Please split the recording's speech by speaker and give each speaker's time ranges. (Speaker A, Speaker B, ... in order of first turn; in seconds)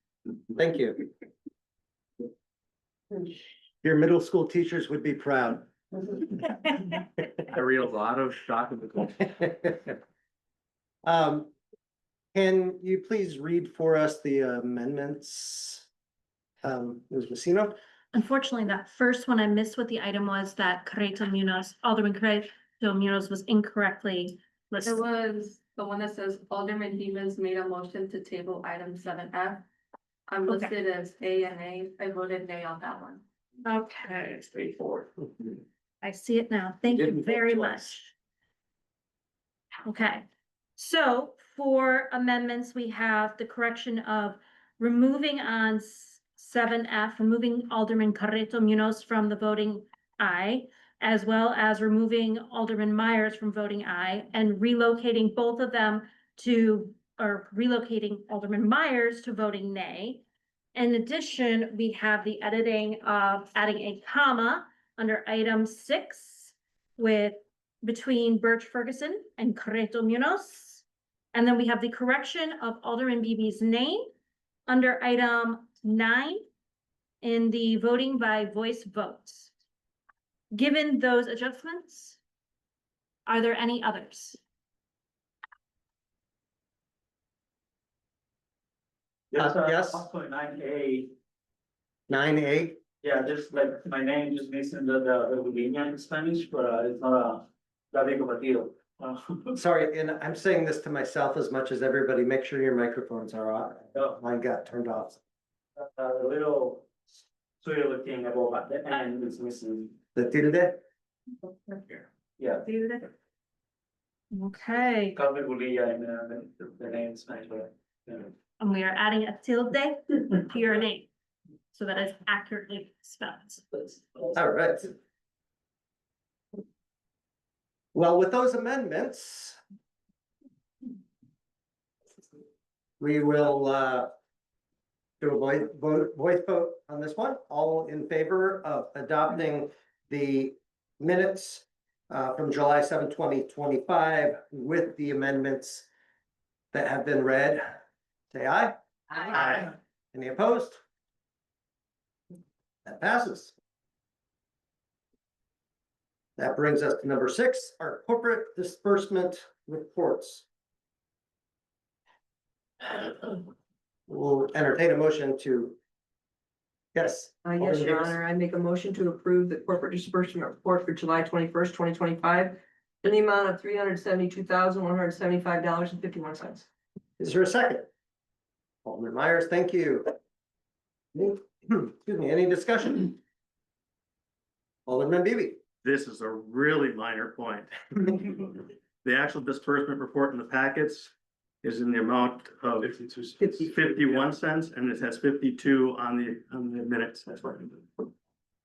Speaker A: 0.5-1.0, 3.8-6.2, 11.0-11.5, 12.3-15.9, 16.6-17.8, 89.4-90.0, 92.1-92.8, 99.6-105.2, 110.2-110.8, 124.3-124.9, 127.9-129.6, 133.0-134.1, 135.2-145.9, 146.7-147.8, 148.3-150.8, 152.8-153.5, 156.4-160.4, 162.8-163.4, 164.1-165.8, 166.9-168.2, 177.2-177.9, 178.8-180.1, 181.1-183.2, 184.8-185.6
Speaker B: 7.5-9.0, 185.8-198.0
Speaker C: 18.1-25.0, 30.5-30.7, 33.6-35.0, 36.0-38.1, 39.9-40.2, 40.8-60.2, 60.7-74.1, 74.7-76.5, 77.2-79.5, 80.5-82.2, 83.3-84.4, 112.6-113.1, 114.3-115.2, 118.6-121.1, 121.7-124.0
Speaker D: 24.8-29.6, 30.3-33.2
Speaker E: 89.3-91.1, 93.0-99.6, 105.8-107.1, 107.6-110.0, 111.9-112.7, 115.2-118.3
Speaker F: 167.4-176.7